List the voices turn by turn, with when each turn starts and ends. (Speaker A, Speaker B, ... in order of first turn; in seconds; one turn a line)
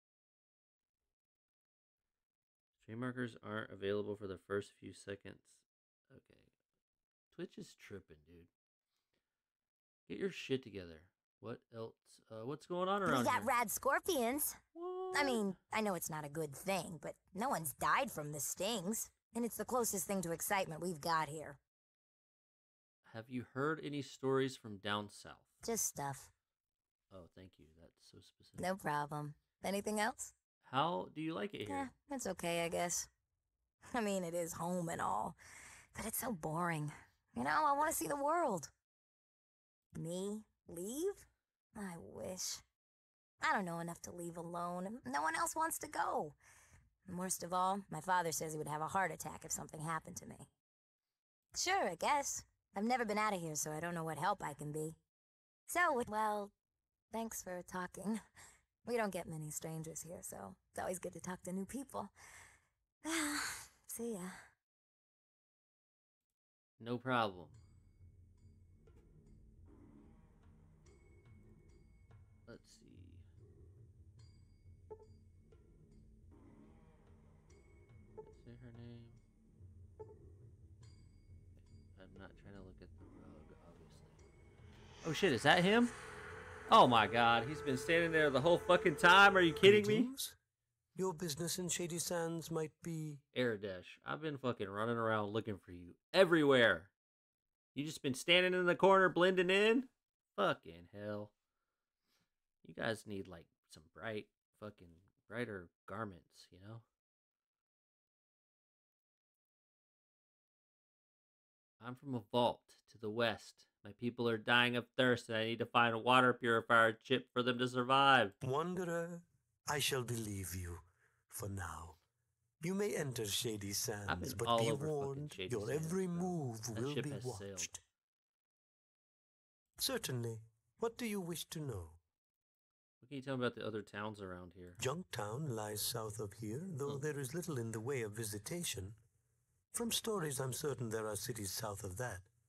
Speaker A: 2.8-6.5
Speaker A: 7.3-8.5
Speaker A: 10.1-13.5
Speaker B: 13.1-14.6
Speaker A: 14.7-15.6
Speaker B: 15.1-21.6
Speaker A: 23.0-25.5
Speaker B: 25.6-26.3
Speaker A: 27.1-28.7
Speaker B: 28.6-30.3
Speaker A: 30.6-31.9
Speaker B: 31.7-33.1
Speaker B: 33.9-35.4
Speaker B: 35.9-38.7
Speaker B: 40.0-42.6
Speaker B: 43.4-46.3
Speaker B: 47.1-50.5
Speaker B: 51.5-55.0
Speaker B: 55.7-56.5
Speaker B: 57.1-58.2
Speaker B: 58.8-62.1
Speaker B: 63.0-64.4
Speaker A: 66.8-67.6
Speaker A: 72.5-73.2
Speaker A: 78.2-79.2
Speaker A: 81.6-84.2
Speaker A: 85.0-85.9
Speaker A: 86.7-90.1
Speaker C: 89.6-90.3
Speaker C: 90.9-93.2
Speaker A: 93.3-96.9
Speaker A: 97.7-101.3
Speaker A: 102.6-106.8
Speaker A: 111.8-118.3
Speaker C: 118.4-122.0
Speaker C: 122.6-127.8
Speaker A: 124.0-127.7
Speaker C: 129.8-132.0
Speaker A: 133.0-134.8
Speaker C: 134.8-139.0
Speaker C: 139.7-142.3